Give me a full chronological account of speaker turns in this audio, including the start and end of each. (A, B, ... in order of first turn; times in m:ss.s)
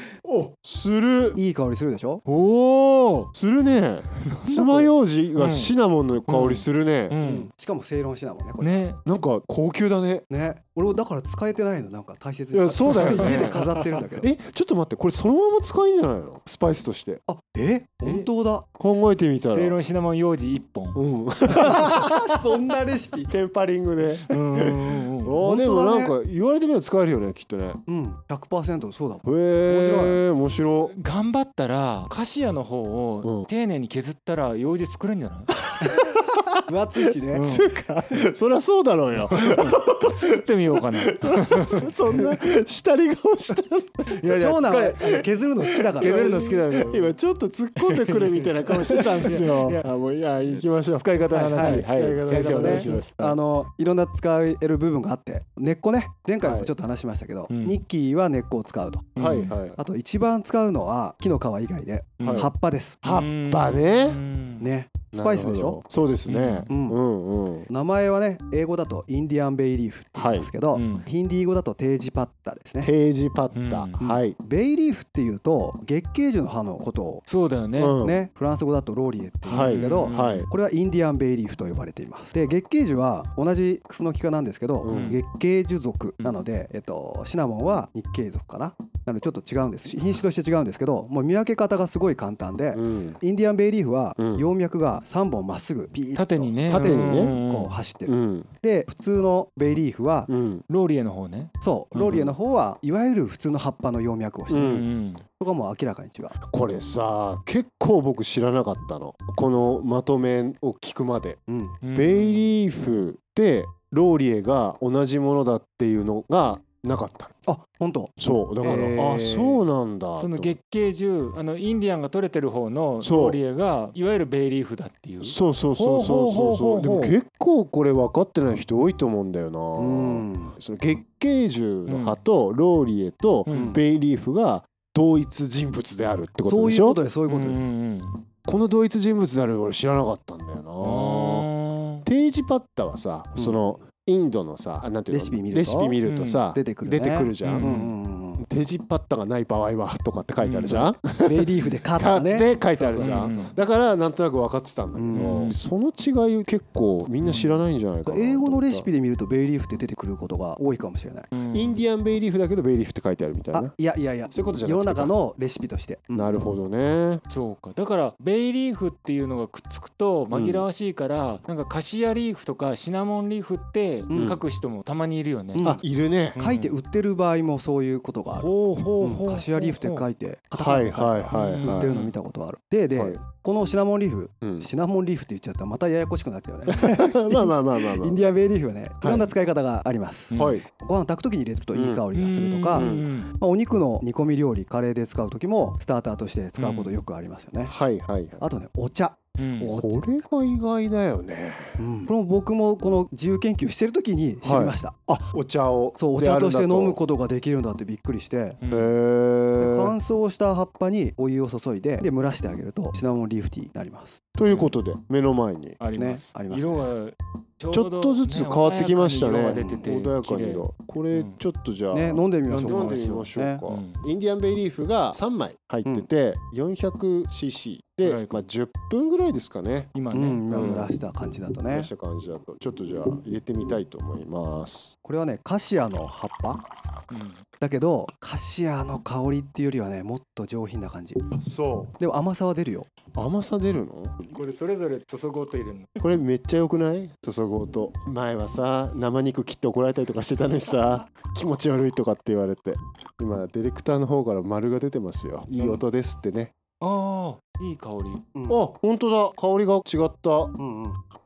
0:00.2-0:01.4 A
0:01.4-0:02.2 B
0:02.3-0:03.3 C
0:03.3-0:07.2 A
0:04.2-0:05.7 C
0:06.3-0:07.5 C
0:07.2-0:08.8 B
0:08.6-0:09.0 C
0:09.1-0:10.2 A
0:10.3-0:14.3 B
0:12.5-0:17.2 A
0:12.9-0:14.0 C
0:17.3-0:18.8 B
0:18.8-0:19.8 A
0:19.4-0:21.0 C
0:21.0-0:22.6 A
0:21.5-0:23.3 B
0:23.2-0:27.8 A
0:24.3-0:25.4 C
0:25.4-0:26.2 B
0:27.9-0:30.2 B
0:29.2-0:30.9 A
0:30.9-0:35.6 C
0:35.7-0:44.2 A
0:35.8-0:36.1 B
0:36.6-0:37.4 B
0:37.3-0:37.7 C
0:39.3-0:41.9 C
0:44.1-0:45.2 C
0:44.3-0:46.4 B
0:45.9-0:53.1 A
0:46.0-0:47.2 C
0:47.8-0:48.7 C
0:49.1-0:49.4 B
0:49.2-0:49.9 C
0:50.4-0:53.4 C
0:51.3-0:59.2 B
0:56.4-0:56.7 A
0:57.5-0:57.8 C
0:59.2-0:59.6 C
0:59.2-0:59.8 A
0:59.8-1:03.0 B
1:02.2-1:02.5 C
1:02.2-1:02.5 A
1:03.0-1:04.2 A
1:03.0-1:04.6 C
1:04.6-1:05.8 B
1:05.1-1:07.7 A
1:06.3-1:06.7 C
1:06.7-1:07.0 B
1:07.7-1:12.9 B
1:10.2-1:10.5 A
1:10.7-1:11.1 C
1:12.8-1:14.4 A
1:13.5-1:14.0 C
1:14.0-1:17.2 B
1:17.3-1:18.0 C
1:17.8-1:18.2 A
1:18.0-1:40.3 B
1:19.5-1:20.5 C
1:19.5-1:20.5 A
1:24.8-1:25.2 A
1:24.9-1:25.2 C
1:32.7-1:33.2 A
1:34.2-1:34.4 A
1:36.2-1:37.8 C
1:36.6-1:37.4 A
1:38.1-1:38.5 A
1:40.3-1:40.6 A
1:40.7-1:42.3 C
1:41.6-1:46.4 B
1:42.0-1:42.3 A
1:44.5-1:44.9 A
1:44.5-1:45.2 C
1:46.4-1:51.4 A
1:51.5-1:51.8 B
1:51.8-1:52.5 C
1:51.9-1:57.3 A
1:57.5-1:59.6 B
1:58.2-2:00.6 A
1:58.6-1:59.0 C
2:00.2-2:07.2 C
2:03.0-2:03.4 A
2:05.2-2:17.0 A
2:09.8-2:10.6 B
2:11.9-2:12.2 C
2:13.5-2:13.8 C
2:13.5-2:13.8 B
2:16.4-2:17.7 B
2:17.3-2:18.2 C
2:18.5-2:21.5 A
2:20.8-2:22.0 C
2:22.0-2:27.8 A
2:23.4-2:23.7 B
2:25.1-2:26.0 B
2:26.0-2:26.5 C
2:26.5-2:28.4 B
2:27.4-2:28.0 C
2:28.4-2:38.9 A
2:30.4-2:30.9 C
2:31.2-2:33.5 B
2:33.0-2:33.6 C
2:35.0-2:35.5 B
2:35.1-2:35.6 C
2:37.2-2:37.6 C
2:38.1-2:41.3 B
2:41.3-2:41.8 C
2:41.5-2:43.7 A
2:43.5-2:46.4 B
2:44.3-2:45.2 A
2:46.1-2:47.2 A
2:47.3-2:55.7 C
2:50.3-2:50.7 A
2:54.1-2:54.4 B
2:54.1-2:54.4 A
2:55.6-2:55.8 B
2:55.6-2:56.4 A
2:56.4-2:56.7 C
2:56.4-2:58.5 B
2:58.3-3:00.1 C
2:59.0-3:17.7 B
3:00.6-3:01.9 A
3:01.3-3:02.1 C
3:04.4-3:04.7 A
3:06.7-3:08.2 A
3:09.0-3:09.3 A
3:10.3-3:10.6 C
3:10.3-3:10.6 A
3:11.7-3:12.0 A
3:12.1-3:13.3 C
3:12.7-3:13.1 A
3:16.6-3:17.0 C
3:17.7-3:18.4 A
3:18.4-3:19.2 B
3:19.4-3:19.8 C
3:19.6-3:21.8 A
3:21.8-3:25.0 B
3:24.4-3:27.0 A
3:26.0-3:28.6 B
3:28.6-3:28.9 C
3:28.7-3:30.0 A
3:29.6-3:34.2 B
3:34.4-3:35.8 A
3:34.5-3:34.8 C
3:35.8-3:41.4 C
3:36.0-3:36.8 B
3:37.7-3:49.9 A
3:41.9-3:43.6 B
3:42.5-3:44.0 C
3:48.0-3:48.5 C
3:50.0-3:50.9 C
3:50.1-3:51.9 B
3:50.5-3:50.9 A
3:51.7-3:55.0 A
3:55.0-3:56.6 B
3:57.1-3:57.4 C
3:57.6-4:01.3 B
4:01.3-4:02.0 A
4:02.0-4:02.9 B
4:03.2-4:04.2 A
4:04.3-4:05.9 C
4:06.0-4:16.5 A
4:16.8-4:18.3 C
4:18.4-4:18.6 B
4:18.5-4:20.6 A
4:20.6-4:21.0 B